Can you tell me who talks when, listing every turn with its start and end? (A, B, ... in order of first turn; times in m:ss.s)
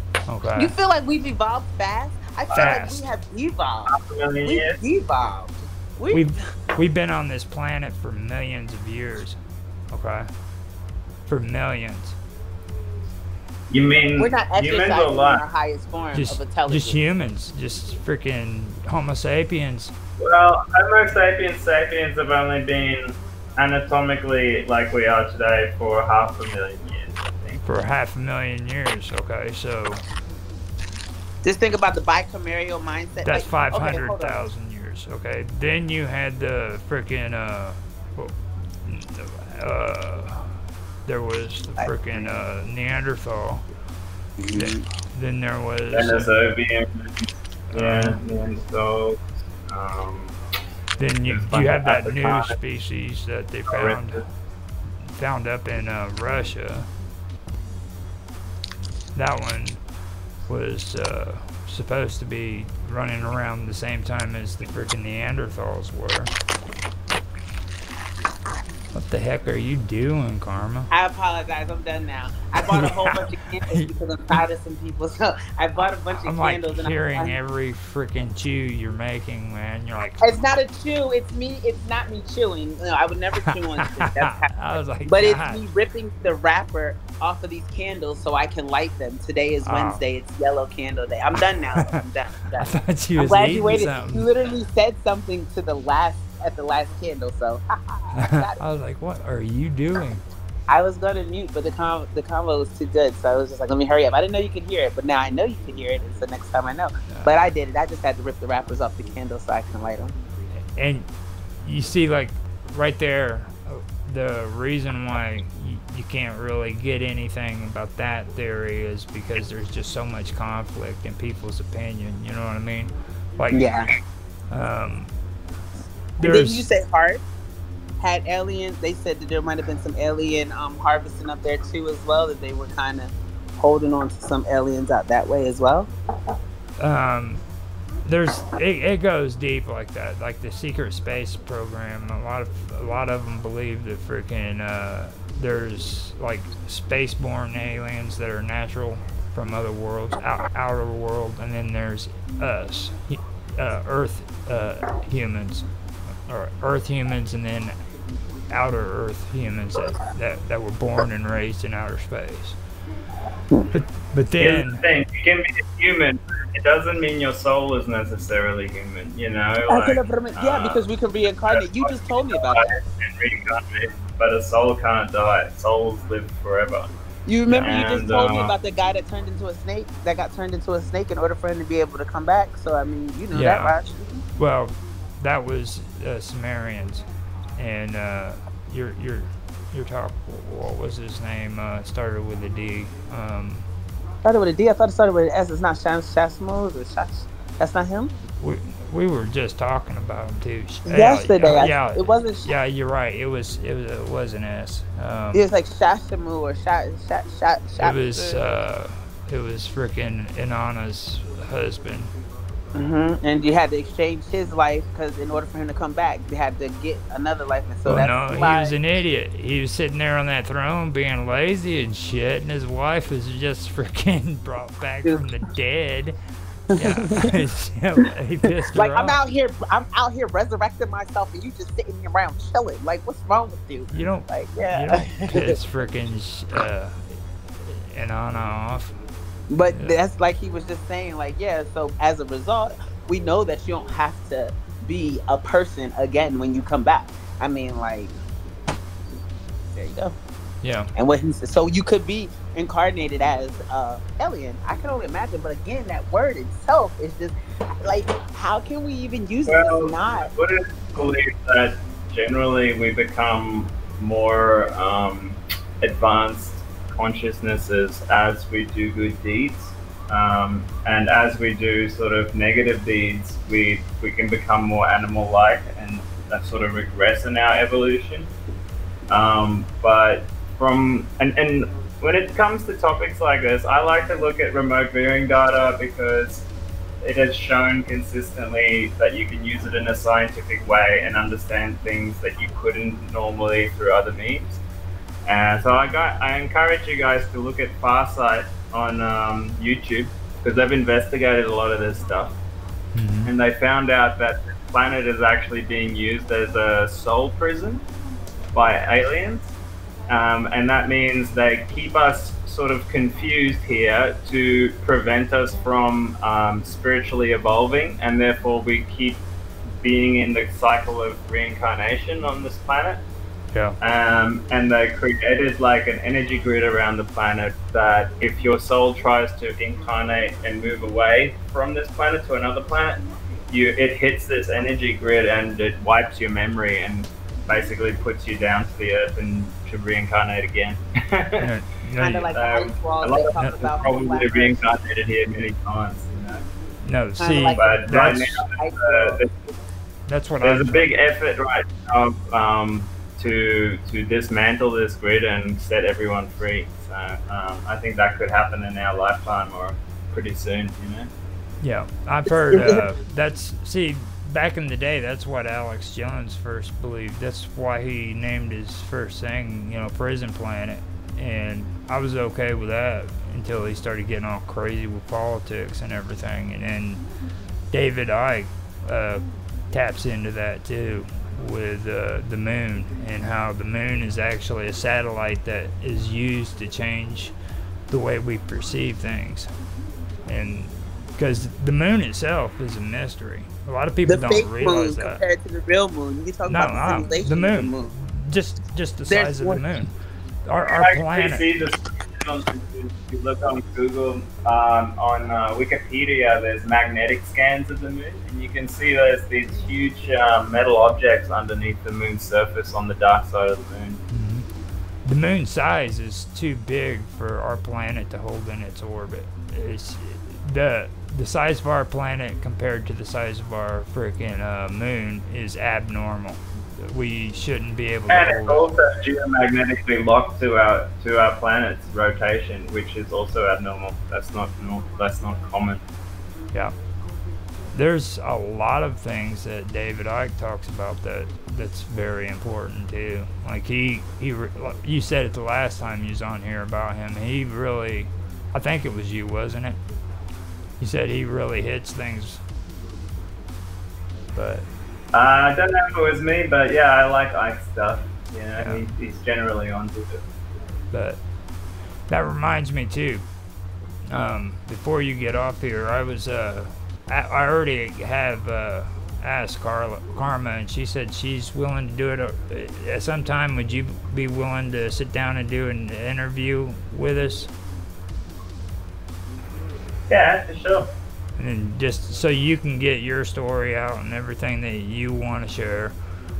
0:00.2-0:00.7 A
0:00.6-0:06.2 B
0:02.5-0:02.8 C
0:02.6-0:03.0 A
0:03.9-0:04.8 C
0:06.1-0:09.4 A
0:09.9-0:10.3 A
0:11.3-0:12.2 A
0:13.7-0:15.4 C
0:14.2-0:17.0 B
0:16.1-0:19.9 A
0:20.2-0:27.6 C
0:27.6-0:30.0 A
0:31.4-0:34.4 B
0:33.2-0:43.6 A
0:41.8-0:42.4 B
0:44.4-0:44.8 B
0:44.5-0:46.3 A
0:45.9-0:49.2 C
0:47.7-0:48.2 A
0:49.7-0:50.4 C
0:51.0-0:54.2 A
0:51.3-0:52.6 C
0:53.7-0:54.2 C
0:55.1-0:56.9 A
0:59.1-0:59.8 A
1:00.5-1:06.3 A
1:08.9-1:10.9 A
1:10.9-1:17.4 B
1:12.6-1:14.4 A
1:16.1-1:20.4 A
1:20.2-1:38.6 B
1:23.4-1:25.6 A
1:29.6-1:30.0 A
1:32.5-1:34.3 A
1:38.1-1:40.2 A
1:40.7-1:50.1 B
1:47.1-1:47.3 A
1:50.7-1:51.1 A
1:51.6-2:03.8 A
2:03.5-2:03.9 B
2:04.5-2:05.1 A
2:06.2-2:06.7 A
2:06.2-2:07.2 B
2:08.0-2:15.9 B
2:16.8-2:17.4 A
2:18.0-2:35.6 A
2:36.2-2:37.8 A
2:38.5-2:42.6 A
2:43.7-2:44.8 A
2:44.4-2:50.8 C
2:49.7-2:52.7 B
2:51.5-2:56.9 C
2:57.2-3:03.9 B
2:57.5-2:57.8 A
2:57.6-2:58.5 C
3:03.3-3:03.8 A
3:04.4-3:07.0 A
3:07.6-3:13.6 A
3:14.2-3:18.1 B
3:18.4-3:25.4 A
3:20.8-3:22.5 B
3:25.3-3:28.4 B
3:27.8-3:32.1 A
3:32.7-3:38.8 B
3:37.8-3:46.2 A
3:46.7-3:49.2 A
3:46.7-3:47.4 B
3:48.6-3:55.6 B
3:53.9-3:59.0 A
3:59.5-4:08.1 B
3:59.7-4:00.0 A
4:09.7-4:10.2 B
4:10.6-4:10.9 A
4:10.9-4:20.3 B
4:19.4-4:38.3 C
4:39.1-4:46.5 C
4:47.0-4:54.6 C
4:55.2-5:02.4 C
5:02.9-5:03.3 A
5:03.2-5:07.8 C
5:08.5-5:09.5 C
5:10.1-5:19.2 C
5:19.8-5:23.0 C
5:23.5-5:23.8 A
5:23.8-5:41.5 C
5:41.4-5:42.3 A
5:42.0-5:44.6 B
5:42.3-5:46.4 C
5:43.4-5:43.7 A
5:46.8-5:48.4 A
5:47.2-5:47.6 B
5:47.6-5:49.5 C
5:48.6-5:49.2 B
5:50.1-5:50.9 A
5:50.4-6:01.1 C
6:01.6-6:17.0 A
6:02.5-6:02.8 B
6:17.7-6:27.3 A
6:27.9-6:29.5 A
6:30.2-6:35.2 A
6:34.1-6:37.9 B
6:36.5-6:39.9 A
6:39.1-6:39.7 B
6:40.4-6:41.4 A
6:40.7-6:54.0 C
6:54.1-6:54.5 A
6:55.0-7:08.7 A
7:08.1-7:15.8 C
7:17.7-7:29.8 A
7:30.8-7:32.4 A
7:34.3-7:34.7 A
7:35.1-7:40.2 C
7:38.6-7:38.8 A
7:40.9-7:41.2 A
7:42.1-7:43.2 A
7:44.1-7:57.5 A
8:00.1-8:00.9 C
8:01.4-8:05.9 A